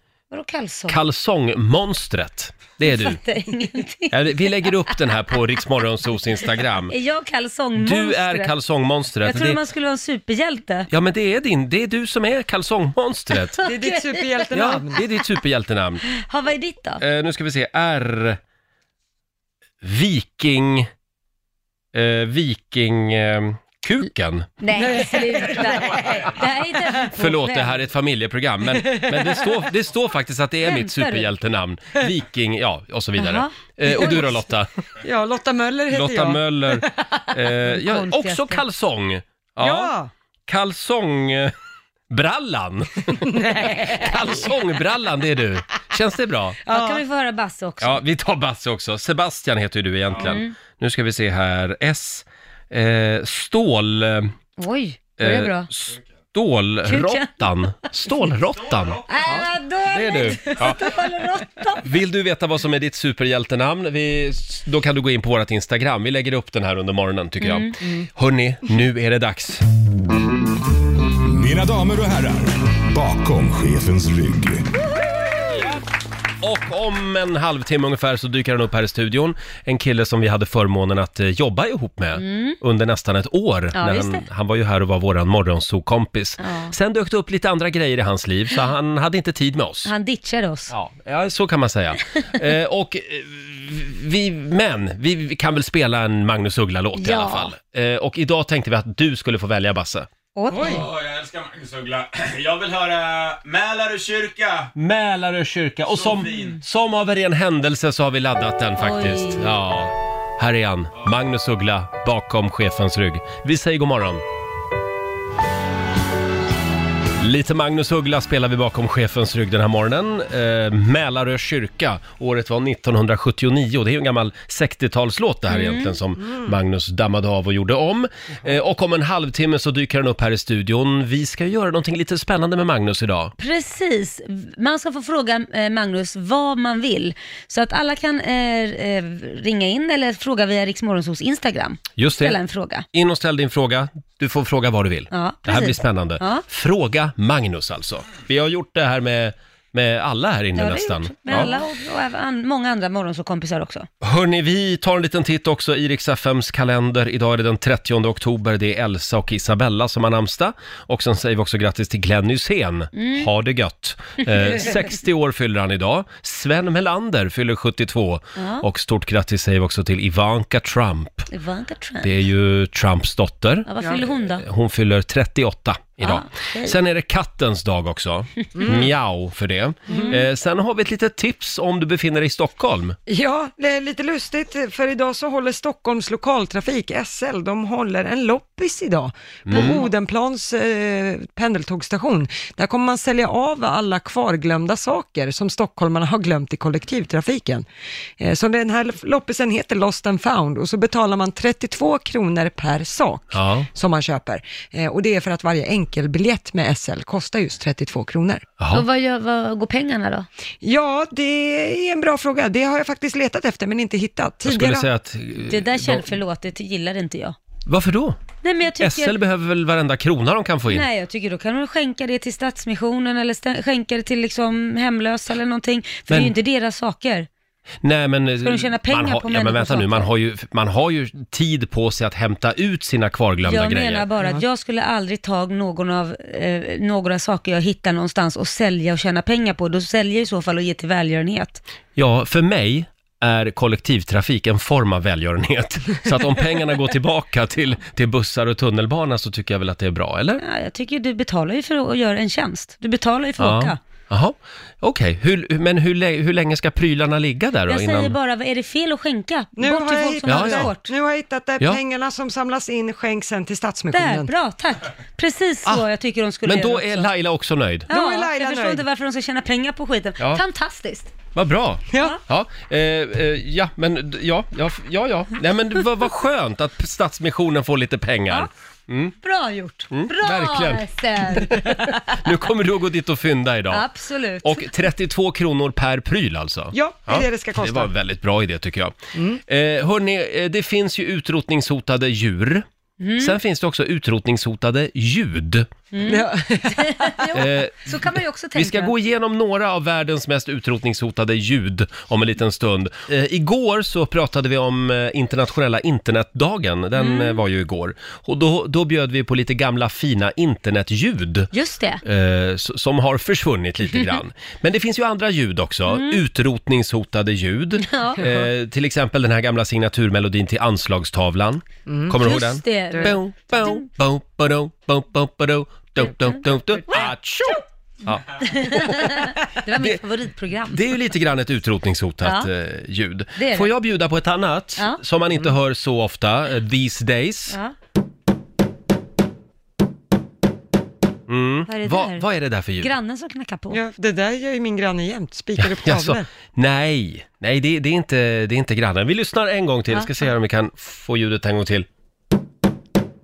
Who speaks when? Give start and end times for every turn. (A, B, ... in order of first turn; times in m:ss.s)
0:00.3-0:01.0 A
0:00.9-0:03.2 B
0:02.8-0:04.9 A
0:04.1-0:06.9 B
0:06.9-0:08.5 A
0:07.8-0:09.6 B
0:09.2-0:10.9 A
0:10.9-0:13.6 B
0:13.6-0:14.4 A
0:13.6-0:15.0 C
0:14.5-0:16.0 B
0:16.1-0:17.0 A
0:17.0-0:18.4 B
0:19.8-0:20.9 B
0:21.9-0:24.6 B
0:24.6-0:27.8 A
0:24.7-0:27.0 C
0:27.1-0:34.7 B
0:28.7-0:29.5 C
0:30.6-0:31.3 A
0:33.2-0:33.5 A
0:33.9-0:34.4 C
0:35.0-0:36.8 C
0:35.9-0:39.9 B
0:37.7-0:38.6 A
0:39.6-0:40.1 C
0:40.5-0:41.5 B
0:42.1-0:46.6 B
0:43.1-0:44.5 C
0:46.7-0:48.0 A
0:46.7-0:47.0 C
0:47.8-0:54.3 B
0:50.2-0:50.5 A
0:54.6-0:55.7 A
0:55.2-1:00.9 B
0:56.8-0:57.4 A
0:58.6-0:59.0 D
0:59.1-1:01.8 A
1:01.8-1:09.6 B
1:07.4-1:07.8 A
1:11.3-1:14.6 E
1:16.4-1:29.9 B
1:22.1-1:22.6 A
1:23.7-1:24.2 A
1:26.4-1:26.7 A
1:29.8-1:30.7 A
1:30.7-1:40.1 B
1:37.0-1:37.5 A
1:40.4-1:40.8 A
1:40.5-1:40.8 C
1:40.5-1:44.7 D
1:44.8-1:54.2 B
1:45.9-1:46.6 D
1:48.8-1:49.5 A
1:57.2-2:13.3 B
2:05.5-2:06.0 A
2:13.4-2:22.8 A
2:22.0-2:22.4 B
2:22.9-2:31.5 B
2:25.1-2:26.4 A
2:30.5-2:33.9 A
2:34.0-2:51.3 B
2:42.9-2:43.3 A
2:44.2-2:44.8 A
2:48.4-2:48.6 A
2:51.3-2:52.1 A
2:52.0-2:53.7 B
2:53.6-2:54.4 A
2:54.2-3:03.0 B
2:56.0-2:56.7 A
2:58.6-2:58.9 C
2:59.9-3:00.2 C
2:59.9-3:00.2 A
3:03.1-3:17.6 C
3:09.4-3:09.8 B
3:09.5-3:09.8 A
3:18.2-3:28.4 C
3:23.3-3:23.7 B
3:28.6-3:28.8 B
3:28.7-3:30.3 A
3:30.6-3:34.9 C
3:34.4-3:36.1 B
3:35.5-3:37.4 A
3:37.6-3:38.2 B
3:38.4-3:39.2 A
3:38.8-3:40.9 B
3:40.7-3:47.3 A
3:46.1-3:46.3 B
3:47.8-3:54.1 B
3:48.4-3:50.1 A
3:53.4-4:01.6 A
4:02.0-4:10.4 B
4:10.4-4:13.8 A
4:13.4-4:18.2 B
4:17.7-4:20.9 A
4:19.6-4:24.3 C
4:20.2-4:20.7 B
4:23.9-4:27.1 A
4:26.4-4:27.9 B
4:27.9-4:28.8 C
4:27.9-4:31.1 A
4:31.3-4:39.1 B
4:39.2-4:42.0 A
4:39.9-4:43.9 B
4:43.7-4:44.7 A
4:44.4-4:52.6 B
4:46.7-4:47.9 C
4:49.1-4:49.4 C
4:53.0-4:53.4 A
4:53.2-4:55.7 B
4:55.9-4:58.9 A
4:56.0-4:57.3 C
4:57.3-4:58.0 B
4:58.5-5:11.5 B
5:07.0-5:07.4 A
5:11.5-5:12.0 A
5:12.0-5:30.0 B
5:15.9-5:16.2 A
5:17.8-5:18.4 A
5:21.9-5:22.2 C
5:22.2-5:23.9 A
5:22.9-5:23.2 C
5:28.4-5:30.8 A
5:30.7-5:37.6 B
5:32.2-5:32.5 A
5:33.4-5:33.7 A
5:41.3-5:42.9 B
5:41.7-5:42.2 A
5:42.8-5:43.8 A
5:43.7-5:46.3 C
5:45.6-5:51.9 B